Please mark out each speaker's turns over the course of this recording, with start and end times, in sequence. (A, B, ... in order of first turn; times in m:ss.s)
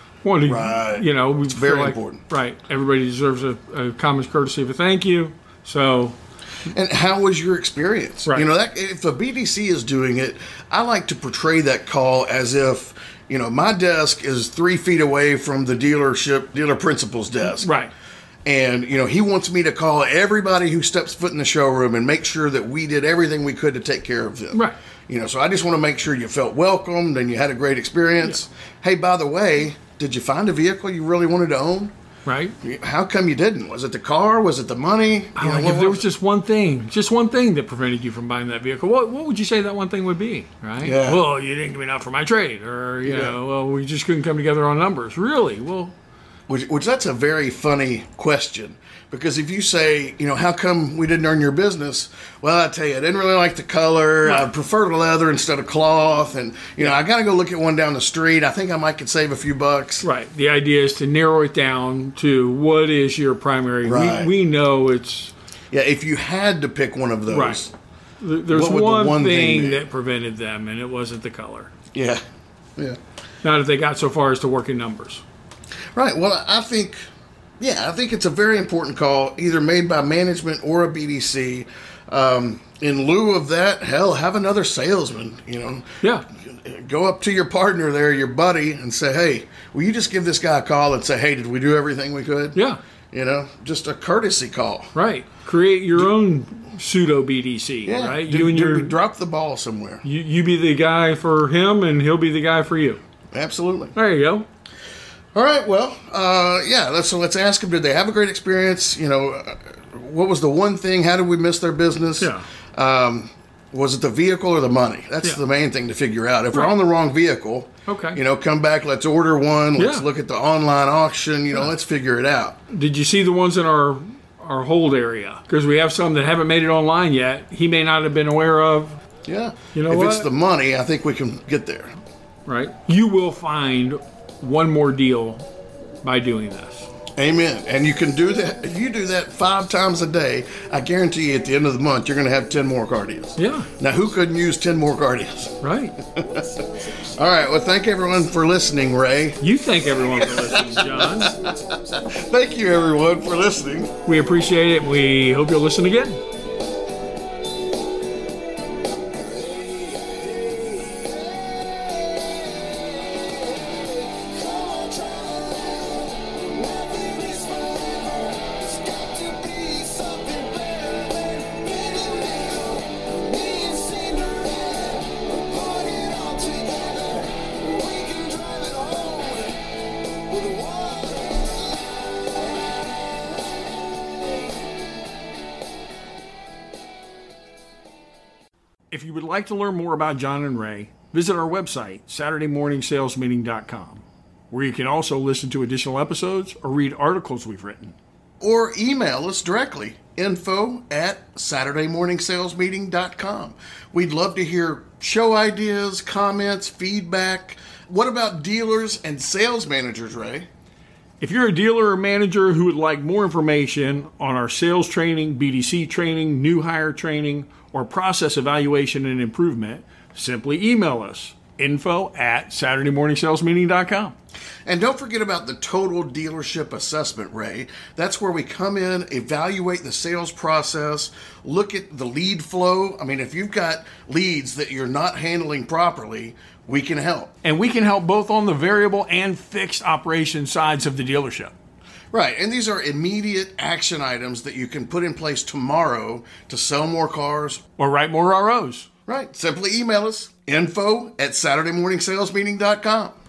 0:00.2-0:06.2 A
0:00.4-0:02.2 B
0:06.7-0:17.7 B
0:17.5-0:17.9 A
0:18.5-0:31.9 B
0:32.2-0:32.6 A
0:32.6-0:36.1 B
0:35.4-0:45.9 A
0:40.8-0:41.2 B
0:43.0-0:43.4 B
0:46.5-1:00.1 B
0:54.2-0:54.5 A
1:00.0-1:05.3 A
1:03.8-1:04.3 B
1:05.7-1:07.7 B
1:07.3-1:07.6 A
1:08.2-1:11.7 A
1:08.5-1:09.8 B
1:11.9-1:12.2 B
1:13.4-1:15.2 A
1:15.9-1:17.0 B
1:17.6-1:32.6 B
1:33.1-1:34.9 B
1:34.9-1:38.9 A
1:37.9-1:40.0 B
1:40.0-1:43.0 A
1:43.3-1:43.9 B
1:43.9-1:44.5 A
1:45.3-2:02.6 B
1:52.2-1:52.4 A
1:57.9-1:58.2 A
1:59.8-2:00.1 A
2:02.7-2:09.0 A
2:09.2-2:11.9 B
2:09.7-2:10.3 A
2:12.5-2:15.5 A
2:16.0-2:16.9 A
2:17.2-2:26.5 B
2:23.4-2:23.7 A
2:25.6-2:26.0 A
2:27.1-2:29.4 B
2:29.4-2:31.4 A
2:30.2-2:33.9 B
2:34.0-2:36.2 A
2:43.4-2:59.6 C
3:00.3-3:01.6 C
3:08.9-3:18.0 A
3:18.4-3:30.5 B
3:31.2-3:44.1 A
3:44.6-3:57.3 B
3:57.4-4:01.5 A
4:02.1-4:07.6 B
4:07.8-4:08.9 A
4:09.1-4:13.1 B